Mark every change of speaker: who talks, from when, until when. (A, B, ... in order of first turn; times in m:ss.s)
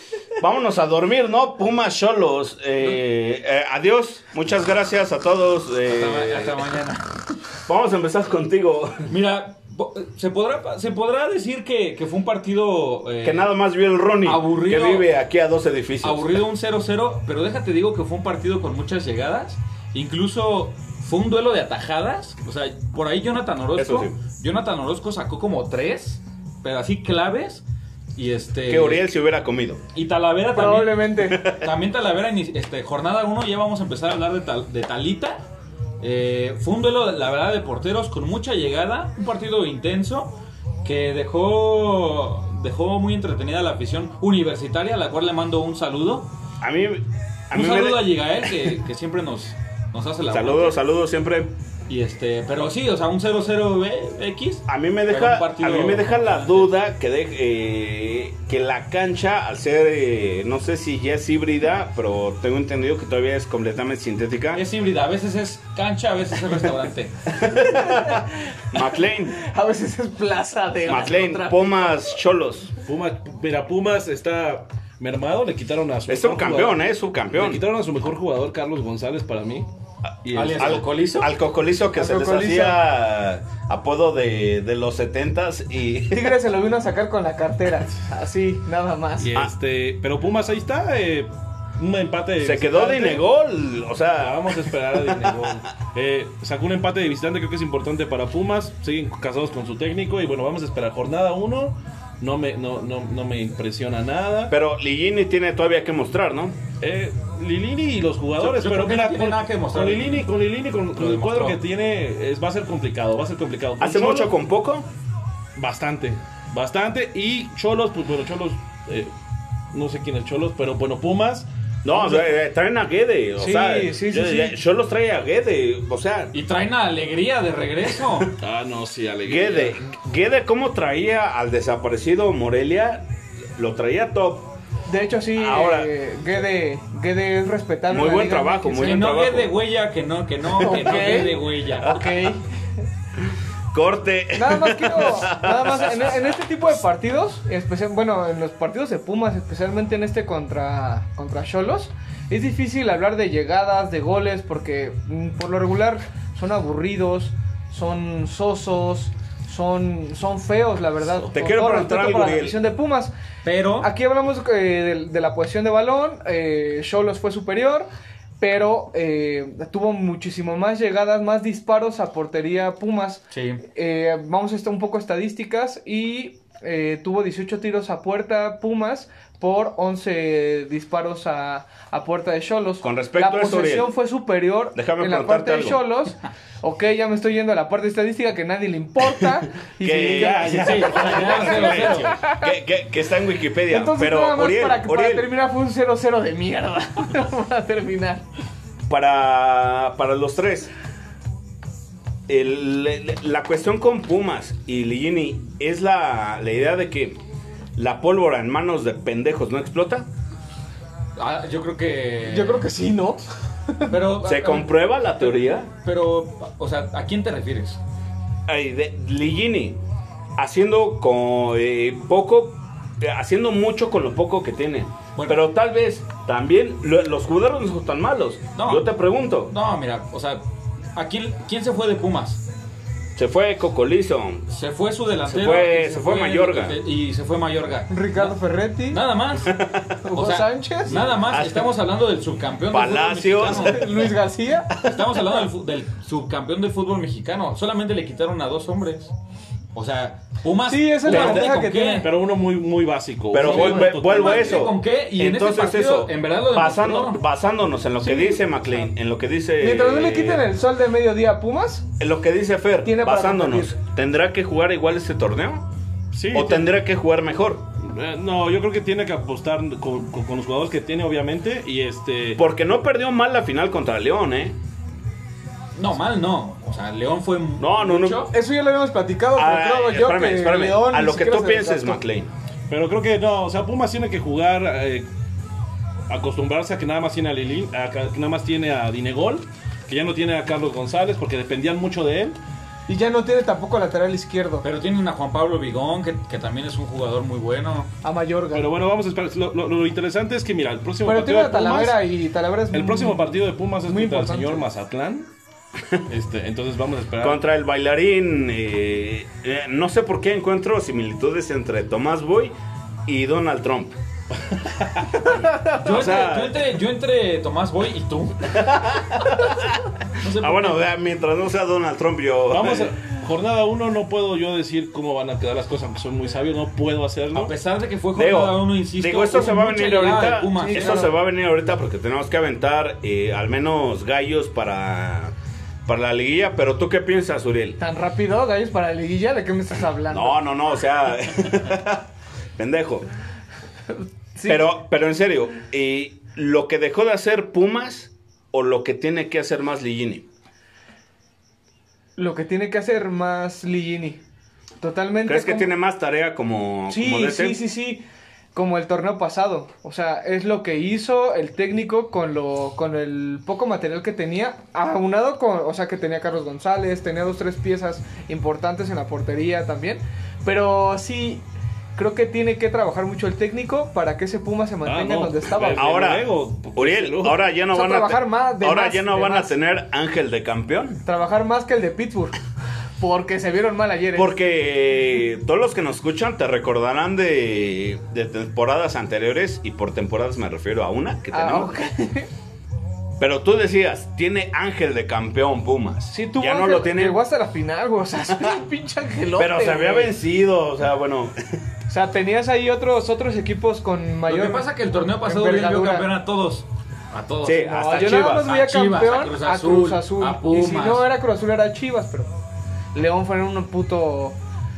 0:00.4-0:06.6 A
0:05.9-0:07.2 B
0:07.7-0:09.1 A
0:09.1-0:13.5 B
0:13.2-0:16.4 A
0:14.2-0:15.1 B
0:16.0-0:27.6 B
0:23.8-0:24.1 A
0:28.2-0:29.1 B
0:28.7-0:29.8 A
0:29.9-0:35.4 B
0:30.5-0:31.4 C
0:31.4-0:31.6 A
0:36.0-0:46.3 B
0:46.6-0:48.1 A
0:47.5-0:50.8 B
0:50.3-0:51.5 A
0:51.9-0:56.7 B
0:54.7-1:04.6 A
1:04.5-1:07.3 B
1:07.3-1:09.4 A
1:07.7-1:08.2 C
1:09.3-1:11.9 C
1:10.9-1:11.1 B
1:10.9-1:12.7 A
1:12.8-1:19.7 D
1:16.1-1:17.6 A
1:20.2-1:20.8 D
1:20.3-1:21.3 B
1:20.5-1:26.3 A
1:21.9-1:22.8 C
1:26.1-1:29.3 C
1:29.2-1:33.2 D
1:32.4-1:34.7 A
1:34.2-1:44.5 D
1:44.5-1:46.6 A
1:46.8-1:54.3 D
1:48.4-1:50.3 B
1:51.0-1:51.6 B
1:53.8-1:54.8 A
1:55.6-1:59.1 D
1:59.7-2:01.5 D
2:01.8-2:06.3 A
2:03.4-2:04.6 C
2:06.3-2:08.3 B
2:08.4-2:09.8 D
2:09.2-2:13.0 A
2:13.6-2:14.5 A
2:14.9-2:19.0 C
2:15.4-2:15.9 A
2:17.9-2:19.5 A
2:18.8-2:22.0 B
2:20.6-2:22.4 C
2:23.7-2:26.1 A
2:24.3-2:43.1 C
2:41.3-2:42.6 A
2:43.4-2:43.9 B
2:43.8-2:47.9 C
2:48.4-3:12.5 C
2:53.3-2:53.6 B
3:02.8-3:03.9 A
3:04.7-3:05.8 A
3:09.8-3:15.3 A
3:10.1-3:11.8 D
3:10.3-3:12.2 B
3:13.7-3:18.2 C
3:18.9-3:20.7 A
3:22.3-3:27.2 A
3:27.8-3:30.1 A
3:31.2-3:32.6 B
3:32.2-3:33.9 C
3:33.8-3:37.8 B
3:34.2-3:35.7 A
3:38.5-3:39.8 A
3:40.4-3:49.5 A
3:45.1-3:45.5 B
3:48.5-3:48.8 B
3:49.4-3:50.4 B
3:51.0-3:52.4 B
3:53.2-3:54.4 A
3:54.5-3:58.4 B
3:55.2-3:56.8 A
3:57.9-3:59.0 C
3:58.9-3:59.5 B
3:59.4-3:59.9 A
4:00.0-4:01.1 C
4:00.1-4:04.1 B
4:01.2-4:01.7 A
4:02.7-4:03.8 A
4:03.6-4:04.9 C
4:04.8-4:09.1 B
4:09.7-4:12.1 B
4:10.7-4:12.1 C
4:11.1-4:11.4 A
4:11.1-4:11.5 D
4:12.0-4:14.6 D
4:13.3-4:20.4 A
4:13.4-4:17.2 B
4:13.5-4:13.9 C
4:18.0-4:18.4 C
4:19.6-4:21.8 C
4:22.0-4:25.6 A
4:22.8-4:23.7 C
4:26.1-4:26.7 D
4:26.3-4:27.7 A
4:27.8-4:32.4 D
4:32.4-4:34.6 A
4:35.7-4:38.3 B
4:37.6-4:38.3 A
4:38.3-4:42.0 C
4:39.4-4:42.3 A
4:42.7-4:45.0 D
4:46.1-4:52.4 D
4:52.9-4:54.6 C
4:54.6-4:57.9 B
4:58.0-4:58.7 C
4:58.5-5:02.0 D
5:01.0-5:04.6 C
5:02.7-5:05.3 D
5:06.1-5:07.4 D
5:07.2-5:12.5 A
5:13.0-5:14.0 A
5:15.3-5:16.6 A
5:15.6-5:18.6 B
5:18.6-5:19.6 A
5:20.2-5:20.8 B
5:20.4-5:22.9 A
5:22.5-5:27.5 D
5:27.3-5:31.1 B
5:28.1-5:35.3 A
5:30.6-5:31.1 C
5:35.8-5:37.8 A
5:37.8-5:40.4 C
5:40.1-5:42.0 A
5:42.6-5:43.1 A
5:44.4-5:44.7 C
5:44.4-5:50.3 A
5:52.2-5:54.2 C
5:54.8-5:55.7 C
5:55.3-5:57.6 A
5:56.9-6:11.4 C
6:12.0-6:16.1 C
6:14.8-6:17.4 D
6:15.8-6:21.0 A
6:17.7-6:19.6 C
6:21.0-6:22.3 C
6:23.0-6:24.3 C
6:24.1-6:31.7 A
6:31.3-6:32.3 C
6:33.2-6:37.2 A
6:36.1-6:40.1 C
6:39.3-6:41.6 A
6:41.9-6:44.7 C
6:44.3-6:51.0 B
6:45.2-6:46.1 C
6:47.4-6:48.5 A
6:47.7-6:52.3 C
6:52.9-6:54.4 C